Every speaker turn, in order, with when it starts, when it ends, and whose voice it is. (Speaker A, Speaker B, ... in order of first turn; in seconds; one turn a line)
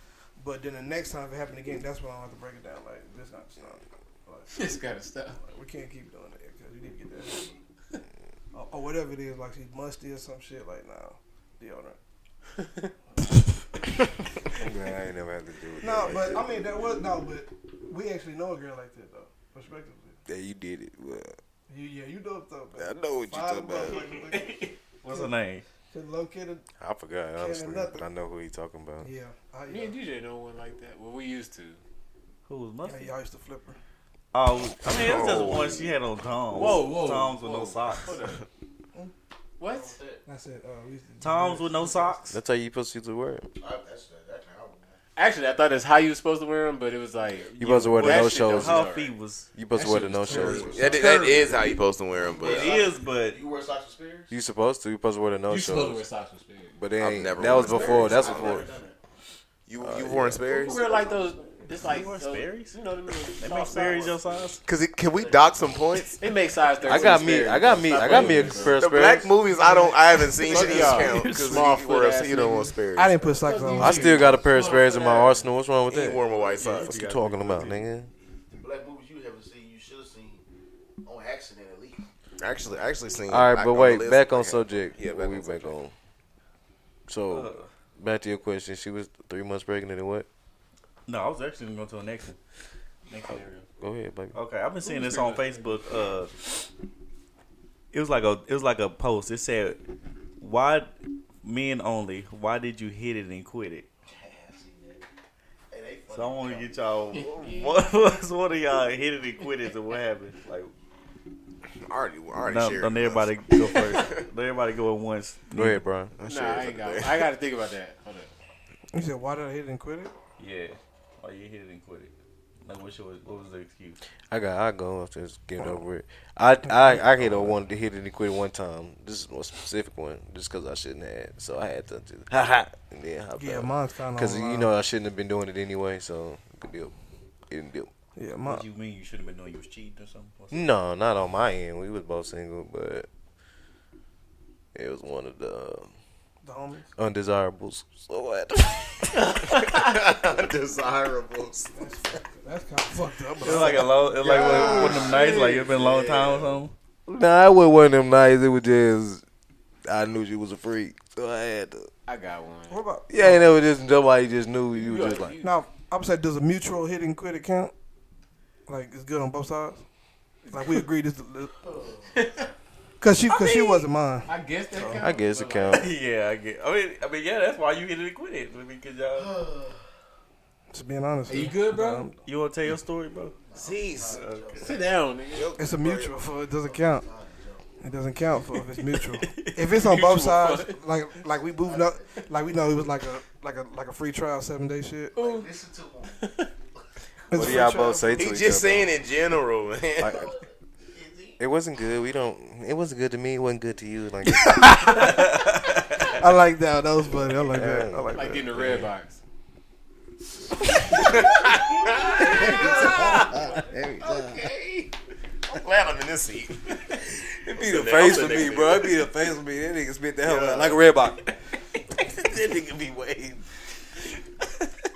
Speaker A: 0.4-4.5
Speaker B: 4.5-5.4
Speaker A: 5.4-7.6
Speaker A: 8.5-12.0
Speaker B: 12.6-12.9
Speaker C: 14.6-16.6
Speaker A: 15.8-20.2
Speaker C: 20.3-21.4
Speaker A: 21.7-25.3
Speaker C: 22.8-24.1
Speaker B: 24.3-24.7
Speaker D: 25.0-25.6
Speaker A: 25.9-26.6
Speaker C: 26.8-29.1
Speaker A: 27.4-28.0
Speaker A: 29.0-29.9
Speaker B: 29.7-31.8
Speaker D: 32.5-33.1
Speaker A: 32.8-33.8
Speaker D: 34.3-38.2
Speaker E: 34.9-35.9
Speaker B: 36.5-38.4
Speaker B: 39.6-40.0
Speaker F: 39.8-40.2
Speaker A: 40.2-42.2
Speaker D: 41.2-42.4
Speaker C: 42.3-43.5
Speaker F: 43.6-45.0
Speaker B: 45.1-49.1
Speaker D: 47.4-49.5
Speaker C: 47.6-48.9
Speaker C: 49.5-50.7
Speaker B: 49.7-51.5
Speaker F: 50.3-51.5
Speaker E: 50.7-52.8
Speaker F: 52.2-54.3
Speaker D: 52.4-53.4
Speaker C: 54.3-56.0
Speaker B: 55.5-56.8
Speaker C: 56.8-58.7
Speaker E: 57.0-58.6
Speaker F: 57.4-59.0
Speaker B: 57.4-58.6
Speaker E: 59.7-61.1
Speaker C: 59.8-60.4
Speaker B: 60.5-64.5
Speaker D: 61.8-62.8
Speaker D: 63.4-64.6
Speaker E: 64.6-66.2
Speaker F: 65.1-65.8
Speaker B: 66.2-68.8
Speaker F: 66.8-67.3
Speaker C: 66.8-69.3
Speaker A: 68.2-68.5
Speaker E: 68.7-73.4
Speaker B: 70.3-72.8
Speaker D: 70.6-71.6
Speaker A: 72.9-74.2
Speaker B: 73.3-75.4
Speaker C: 73.8-78.1
Speaker F: 74.0-75.2
Speaker E: 75.9-76.9
Speaker D: 76.5-77.9
Speaker F: 78.5-80.4
Speaker F: 81.0-82.0
Speaker E: 82.4-85.8
Speaker C: 83.3-85.9
Speaker C: 87.1-90.3
Speaker D: 87.3-87.7
Speaker D: 91.1-92.3
Speaker D: 93.1-93.7
Speaker C: 93.8-94.3
Speaker D: 94.3-96.7
Speaker B: 94.8-95.8
Speaker D: 97.9-99.8
Speaker D: 100.4-103.9
Speaker F: 104.1-105.0
Speaker F: 105.7-106.8
Speaker D: 106.1-110.7
Speaker B: 107.1-107.8
Speaker E: 111.8-114.2
Speaker D: 112.4-115.8
Speaker C: 115.5-116.1
Speaker E: 116.2-117.2
Speaker B: 116.2-118.3
Speaker A: 118.9-120.1
Speaker D: 120.4-122.1
Speaker D: 122.6-124.0
Speaker C: 124.3-136.9
Speaker A: 126.7-127.0
Speaker D: 127.2-127.5
Speaker A: 133.4-134.7
Speaker C: 137.5-137.9
Speaker A: 138.2-138.6
Speaker D: 138.4-140.7
Speaker C: 140.5-143.1
Speaker C: 144.7-145.9
Speaker A: 146.4-146.9
Speaker C: 147.0-149.2
Speaker E: 149.3-151.7
Speaker A: 151.7-154.2
Speaker D: 153.4-156.7
Speaker B: 153.6-155.7
Speaker E: 154.2-156.6
Speaker F: 154.5-155.0
Speaker C: 157.1-159.2
Speaker C: 159.8-161.9
Speaker B: 162.1-162.8
Speaker A: 162.7-163.5
Speaker C: 163.1-165.3
Speaker B: 164.7-165.6
Speaker A: 165.4-167.7
Speaker A: 168.7-169.8
Speaker B: 170.4-170.8
Speaker A: 170.5-171.5
Speaker F: 171.6-172.2
Speaker B: 172.1-172.5
Speaker A: 173.0-174.3
Speaker D: 173.3-173.8
Speaker B: 174.2-175.9
Speaker C: 174.9-175.9
Speaker D: 175.7-179.3
Speaker F: 179.1-179.8
Speaker A: 180.7-182.2
Speaker B: 181.3-182.1
Speaker D: 182.2-183.4
Speaker F: 183.4-185.1
Speaker E: 183.6-184.2
Speaker D: 184.0-184.7
Speaker B: 184.6-185.5
Speaker E: 185.3-186.1
Speaker A: 185.6-187.1
Speaker F: 186.6-187.7
Speaker A: 187.8-195.2
Speaker D: 188.7-189.7
Speaker B: 189.7-190.8
Speaker F: 191.5-192.4
Speaker B: 195.2-195.5
Speaker F: 195.2-196.2
Speaker B: 196.1-196.5
Speaker A: 197.3-198.5
Speaker C: 197.3-199.0
Speaker E: 198.2-200.2
Speaker C: 200.0-200.3
Speaker F: 200.1-201.4
Speaker C: 201.4-205.0
Speaker A: 204.4-205.4
Speaker D: 204.8-206.1
Speaker A: 206.0-208.8
Speaker C: 207.4-208.9
Speaker B: 208.1-209.2
Speaker E: 210.9-213.3
Speaker B: 212.2-213.5
Speaker F: 212.5-214.5
Speaker C: 212.6-214.2
Speaker E: 214.0-214.9
Speaker E: 215.5-219.0
Speaker C: 217.4-221.2
Speaker E: 220.2-220.8
Speaker C: 222.0-223.4